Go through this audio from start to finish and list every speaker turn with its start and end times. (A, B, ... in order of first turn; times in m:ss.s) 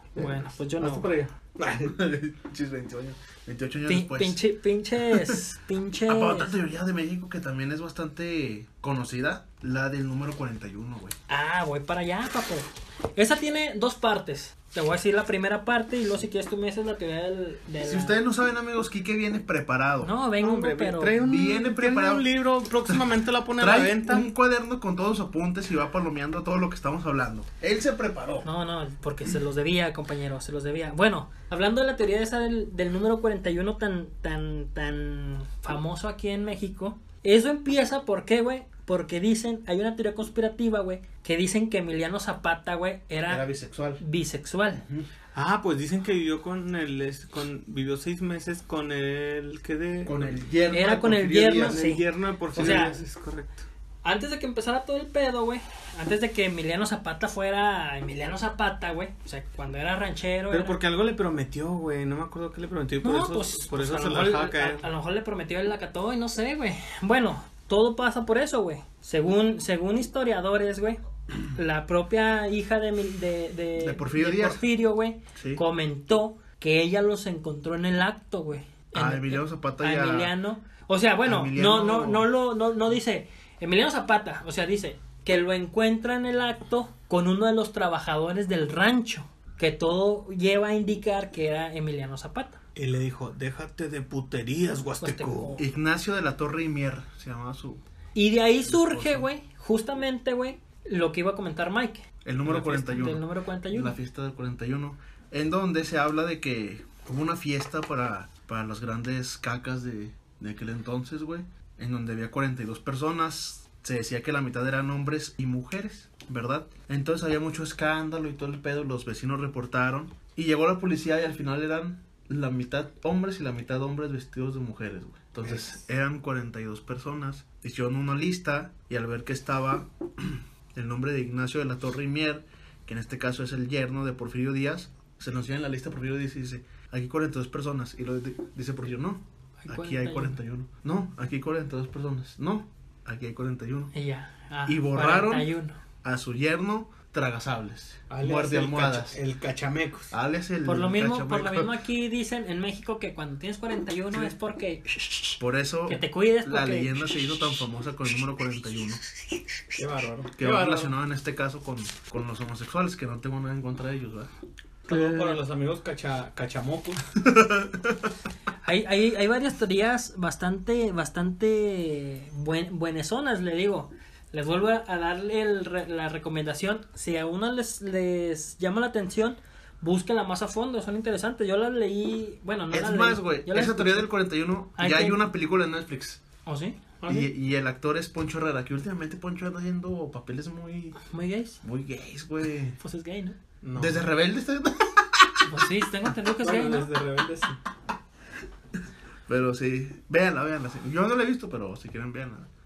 0:00.1-0:02.0 A
0:00.2-0:01.1 B
0:01.8-0:04.4 C
0:03.9-0:06.5 B
0:05.1-0:05.4 C
0:06.1-0:11.2 C
0:11.3-0:18.2 B
0:17.8-0:20.1 C
0:20.0-0:21.2 B
0:20.4-0:24.3 A
0:21.2-0:22.3 C
0:22.9-0:28.5 C
0:28.4-0:43.5 B
0:43.3-0:44.0 C
0:44.0-0:44.8 B
0:44.7-0:45.1 C
0:45.3-0:50.3 A
0:50.0-0:51.8 C
0:50.7-0:53.0 B
0:51.5-0:53.6 A
0:52.5-0:52.8 C
0:54.0-1:00.8 B
1:00.5-1:04.8 A
1:03.0-1:32.6 B
1:13.8-1:14.6 C
1:15.3-1:15.6 C
1:18.9-1:20.3 C
1:21.2-1:22.3 C
1:32.8-1:35.6 A
1:35.0-1:35.6 B
1:35.6-1:37.8 C
1:38.1-1:43.9 B
1:38.6-1:39.3 C
1:42.2-2:23.9 C
2:19.6-2:20.4 B
2:23.9-2:25.8 B
2:24.6-2:25.5 C
2:26.0-2:29.2 C
2:28.1-2:30.1 A
2:30.1-2:31.7 C
2:30.6-2:37.3 B
2:35.4-2:39.0 C
2:39.8-2:40.9 A
2:40.4-2:44.3 C
2:44.9-2:47.0 A
2:44.9-2:45.4 B
2:47.2-2:48.0 C
2:48.6-3:04.1 B
3:02.7-3:06.2 C
3:04.8-3:05.2 B
3:06.4-3:07.0 B
3:07.0-3:07.3 A
3:07.1-3:11.0 C
3:11.1-3:11.6 B
3:11.6-3:12.8 C
3:12.8-3:13.4 B
3:13.6-3:14.1 A
3:13.8-3:15.6 C
3:15.4-3:16.9 B
3:16.4-3:17.6 A
3:19.3-3:22.5 C